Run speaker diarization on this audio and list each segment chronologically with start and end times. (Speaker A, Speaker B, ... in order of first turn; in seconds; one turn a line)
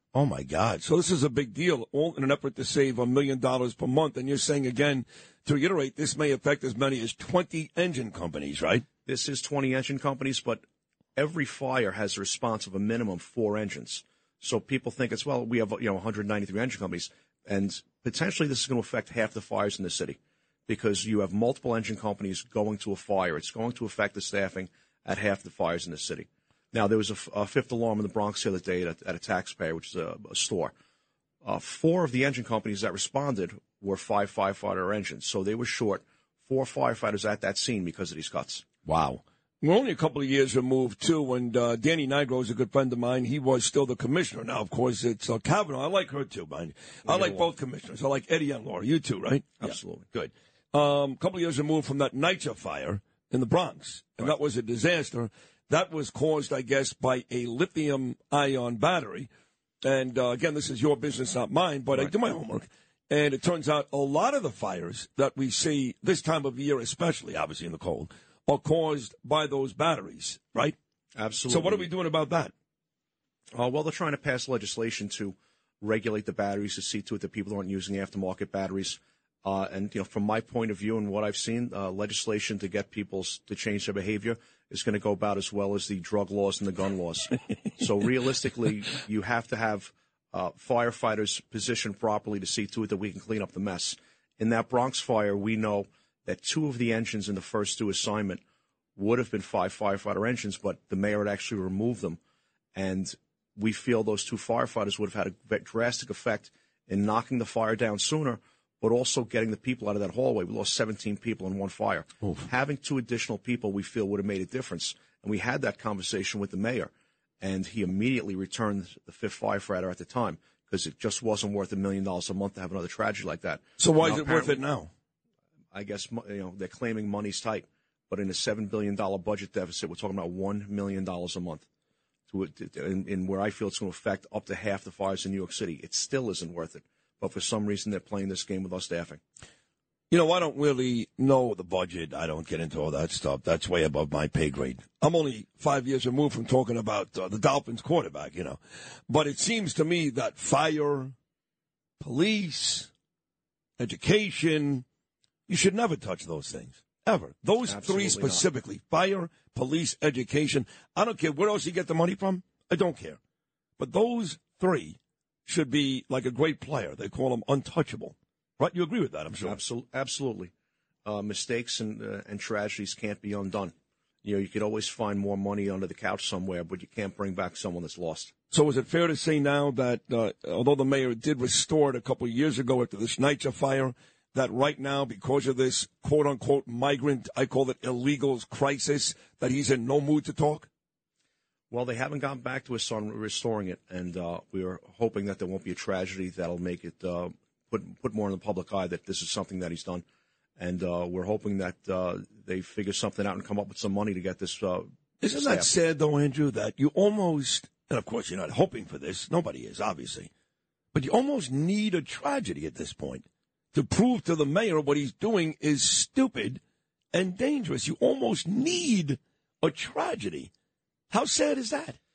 Speaker A: 0.1-8.8
Speaker B: 9.1-10.6
Speaker B: 11.2-30.7
Speaker B: 31.4-38.7
Speaker A: 38.9-59.3
Speaker B: 47.0-47.5
Speaker B: 49.6-50.1
Speaker A: 59.8-70.8
Speaker B: 71.1-71.9
Speaker A: 71.5-72.5
Speaker B: 73.5-98.4
Speaker B: 99.0-102.2
Speaker B: 102.7-124.6
Speaker A: 123.8-124.9
Speaker B: 125.7-131.7
Speaker B: 132.3-139.2
Speaker A: 140.1-151.1
Speaker A: 152.0-152.9
Speaker A: 153.8-154.8
Speaker A: 155.5-163.2
Speaker B: 157.6-158.4
Speaker A: 163.8-169.6
Speaker B: 169.4-170.5
Speaker B: 171.0-178.3
Speaker A: 178.5-190.7
Speaker B: 191.7-200.0
Speaker B: 200.6-205.7
Speaker A: 205.2-210.3
Speaker A: 210.9-216.6
Speaker A: 217.1-220.5
Speaker A: 221.1-222.0